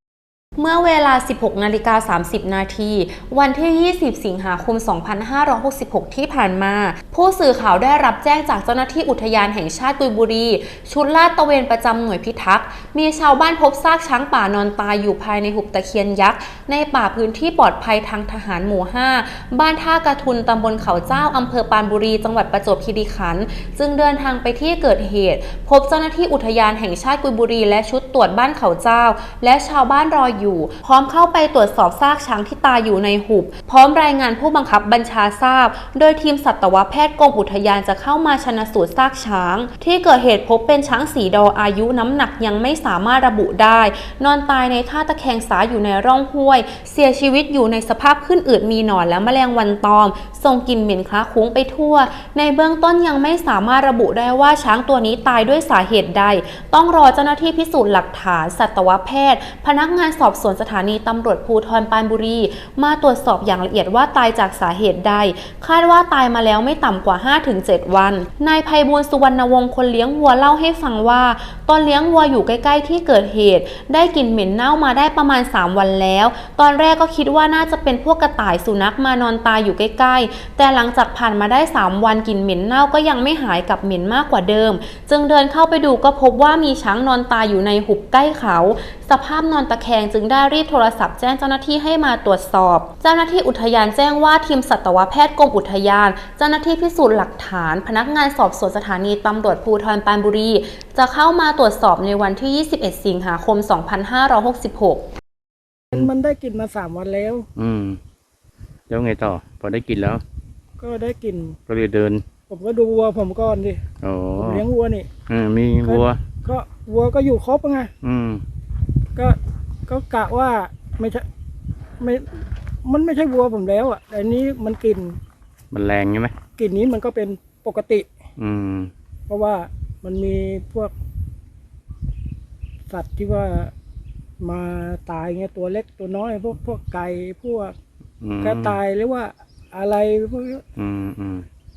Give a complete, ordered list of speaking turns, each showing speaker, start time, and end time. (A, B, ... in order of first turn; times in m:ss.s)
0:00.6-1:45.1 A
1:45.9-1:47.5 B
1:47.6-1:48.0 C
1:48.9-1:50.2 C
1:50.8-1:51.6 B
1:51.7-1:52.2 C
1:52.5-1:53.8 B
1:54.0-1:54.6 C
1:54.3-1:55.1 B
1:55.3-1:56.2 C
1:55.8-1:57.9 B
1:58.0-1:58.4 C
1:59.2-2:01.2 B
2:02.0-2:05.2 B
2:05.7-2:06.3 C
2:06.6-2:08.0 B
2:08.4-2:08.9 C
2:09.3-2:10.9 B
2:12.9-2:13.7 B
2:14.4-2:17.7 B
2:18.2-2:18.8 C
2:18.4-2:20.6 B
2:20.8-2:21.5 C